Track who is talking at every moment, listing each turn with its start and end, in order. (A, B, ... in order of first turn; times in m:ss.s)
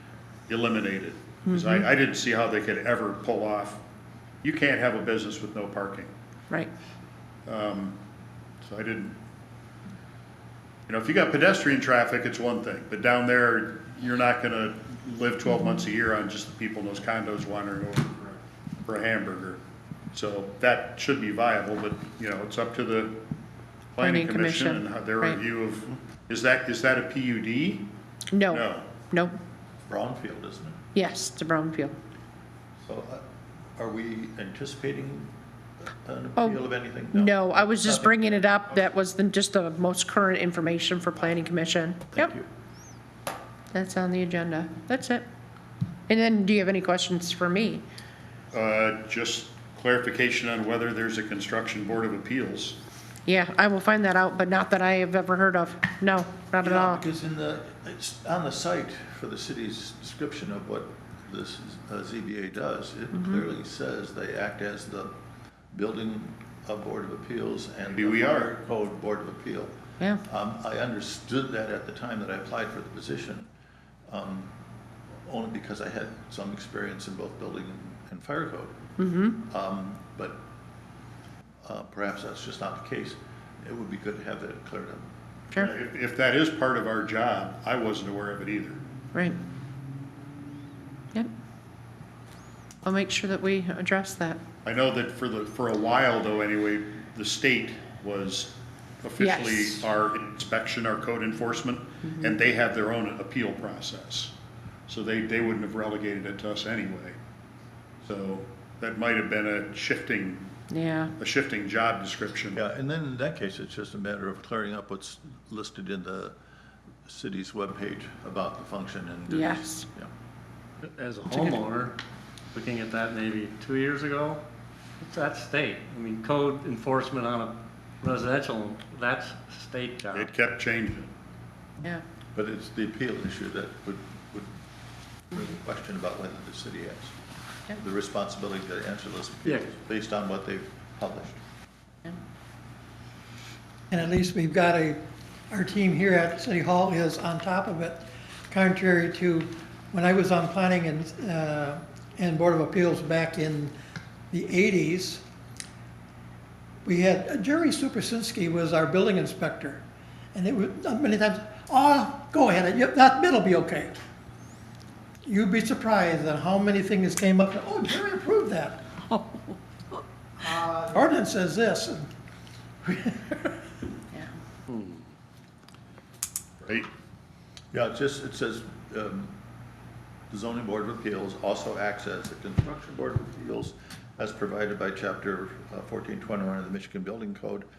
0:00.5-0:03.8 A
0:01.5-0:01.9 B
0:04.4-0:06.1 A
0:07.5-0:08.0 A
0:08.6-0:09.2 A
0:10.9-0:19.6 A
0:20.1-0:23.2 A
0:23.9-0:27.9 A
0:24.0-0:25.4 B
0:28.3-0:29.4 B
0:28.5-0:28.9 A
0:29.9-0:30.8 C
0:31.0-0:32.0 B
0:32.8-0:33.2 C
0:33.8-0:35.3 C
0:36.0-0:38.4 C
0:36.4-0:42.3 B
0:42.1-0:42.5 C
0:43.7-0:45.2 B
0:46.1-0:47.8 B
0:48.5-0:52.8 A
0:53.3-0:57.0 B
0:56.6-1:05.1 C
1:03.1-1:03.4 B
1:05.7-1:09.7 C
1:07.8-1:08.5 A
1:10.3-1:13.5 C
1:14.1-1:14.6 C
1:15.2-1:18.8 C
1:19.0-1:19.4 B
1:19.4-1:20.4 C
1:21.6-1:25.1 C
1:25.6-1:28.8 A
1:32.8-1:34.4 B
1:34.6-1:44.3 A
1:39.2-1:39.8 B
1:44.9-1:47.2 A
1:48.0-1:50.5 A
1:50.7-1:51.1 B
1:51.2-1:52.6 A
1:52.5-1:56.4 C
1:57.1-2:00.1 C
1:59.3-1:59.9 B
2:00.8-2:02.0 D
2:01.3-2:01.6 B
2:02.5-2:04.4 D
2:05.0-2:10.3 D
2:10.1-2:11.1 A
2:12.3-2:14.5 C
2:15.3-2:17.2 C
2:17.7-2:21.4 C
2:23.9-2:25.0 E
2:25.5-2:33.7 E
2:34.3-2:35.2 E
2:36.8-2:39.8 E
2:40.3-2:43.9 E
2:45.2-2:52.1 E
2:52.8-2:53.6 E
2:54.7-2:55.0 D
2:56.6-2:56.9 A
2:57.7-2:59.4 C
3:00.3-3:07.7 C